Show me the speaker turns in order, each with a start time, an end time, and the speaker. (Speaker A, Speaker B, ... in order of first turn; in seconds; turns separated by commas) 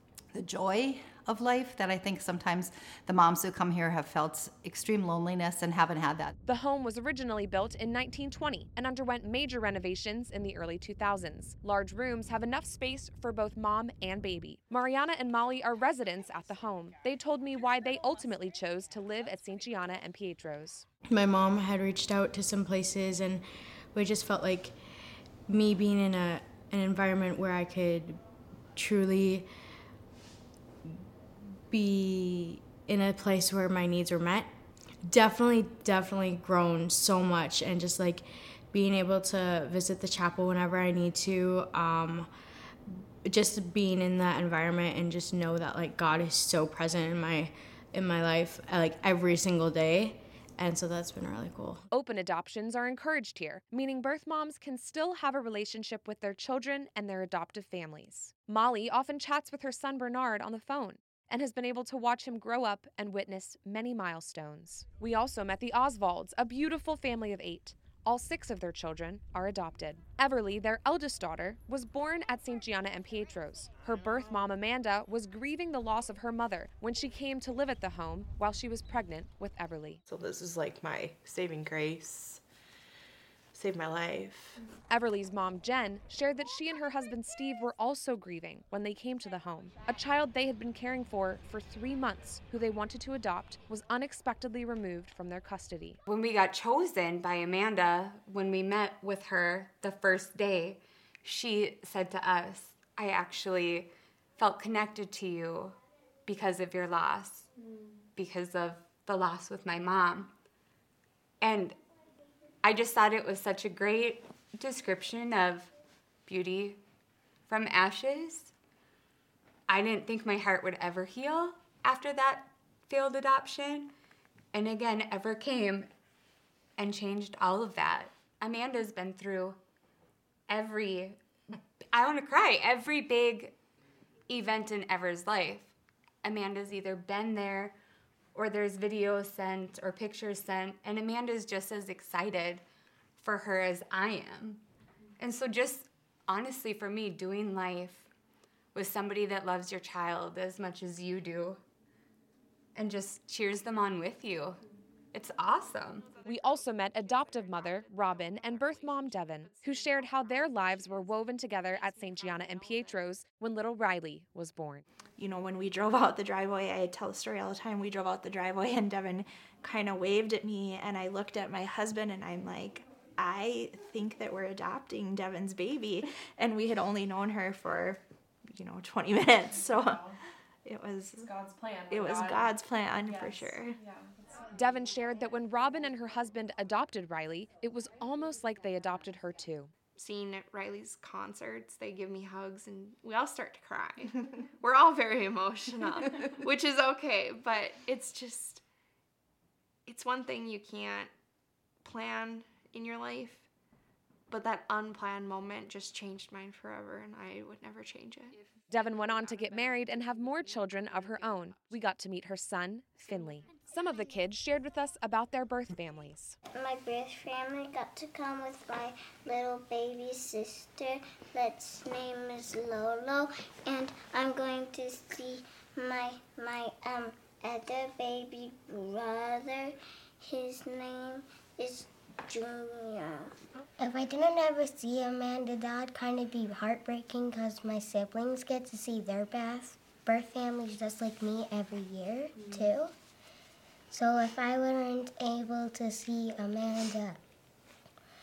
Speaker A: 0.3-6.3, Speaker B: 6.5-20.9, Speaker C: 21.1-24.8, Speaker C: 25.5-28.2, Speaker C: 28.8-29.5, Speaker C: 31.7-34.5, Speaker C: 35.0-42.3, Speaker C: 43.2-51.9, Speaker B: 51.9-80.0, Speaker D: 80.1-82.4, Speaker D: 83.5-84.6, Speaker B: 84.9-96.0, Speaker E: 96.1-107.5, Speaker E: 108.2-110.3, Speaker E: 111.4-111.8, Speaker E: 112.6-115.7, Speaker E: 116.3-116.8, Speaker E: 117.5-118.5, Speaker E: 119.7-123.9, Speaker E: 124.5-125.9, Speaker E: 126.8-129.6, Speaker E: 130.5-131.2, Speaker E: 131.9-133.6, Speaker E: 134.3-137.8, Speaker E: 138.3-142.6, Speaker E: 143.2-144.6, Speaker E: 145.2-148.1, Speaker E: 148.7-151.6, Speaker E: 152.8-154.6, Speaker E: 155.1-156.1, Speaker B: 156.2-164.8, Speaker F: 165.2-180.1, Speaker F: 180.7-181.2, Speaker G: 181.2-182.5, Speaker F: 181.9-183.8, Speaker G: 183.1-184.1, Speaker B: 184.5-189.7, Speaker G: 190.0-198.6, Speaker G: 199.9-201.1, Speaker G: 201.8-203.5, Speaker G: 204.3-208.4, Speaker B: 208.7-216.4, Speaker H: 216.5-242.9, Speaker H: 243.9-247.2